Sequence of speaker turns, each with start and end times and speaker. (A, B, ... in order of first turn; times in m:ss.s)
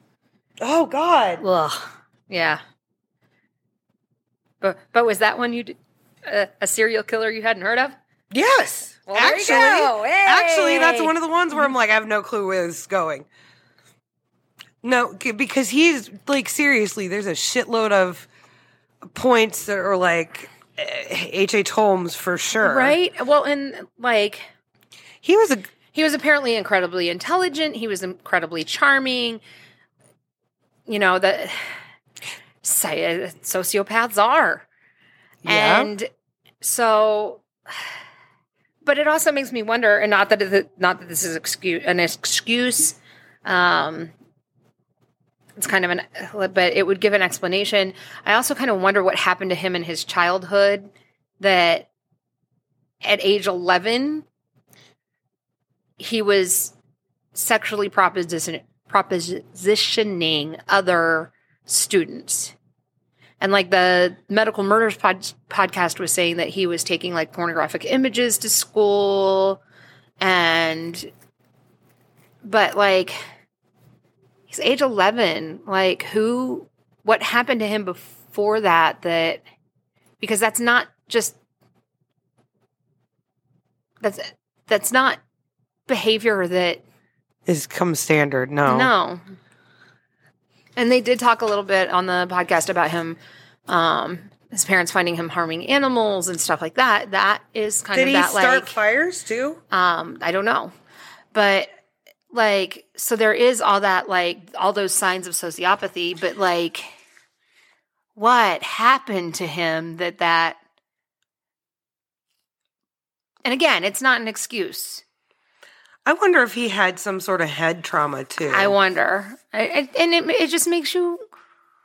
0:00.6-0:01.4 A
0:01.4-0:02.6 B
0:04.6-0:08.0 B
0:08.3-0:13.3 A
0:09.1-0:11.1 B
0:14.8-0:18.3 A
0:19.0-0:23.0 A
0:22.6-0:24.5 B
0:25.2-0:25.7 A
0:25.9-0:29.4 B
0:30.9-0:31.8 B
0:32.6-0:34.7 B
0:35.4-0:35.9 A
0:35.4-0:36.1 B
0:36.6-0:37.4 B
0:38.8-0:44.1 B
0:45.6-0:51.9 B
0:53.0-0:54.2 B
0:56.0-0:56.7 B
0:57.3-1:02.5 B
1:03.4-1:09.6 B
1:10.2-1:11.1 B
1:12.4-1:13.2 B
1:14.5-1:19.4 B
1:20.2-1:21.4 B
1:24.0-1:25.2 B
1:25.9-1:26.8 B
1:27.4-1:28.9 A
1:28.6-1:29.3 B
1:30.8-1:38.8 B
1:37.9-1:39.6 A
1:39.7-1:40.7 B
1:41.3-1:41.7 B
1:42.3-1:46.9 B
1:48.1-1:50.6 B
1:53.4-1:55.0 B
1:56.0-1:58.7 A
1:58.5-2:01.2 B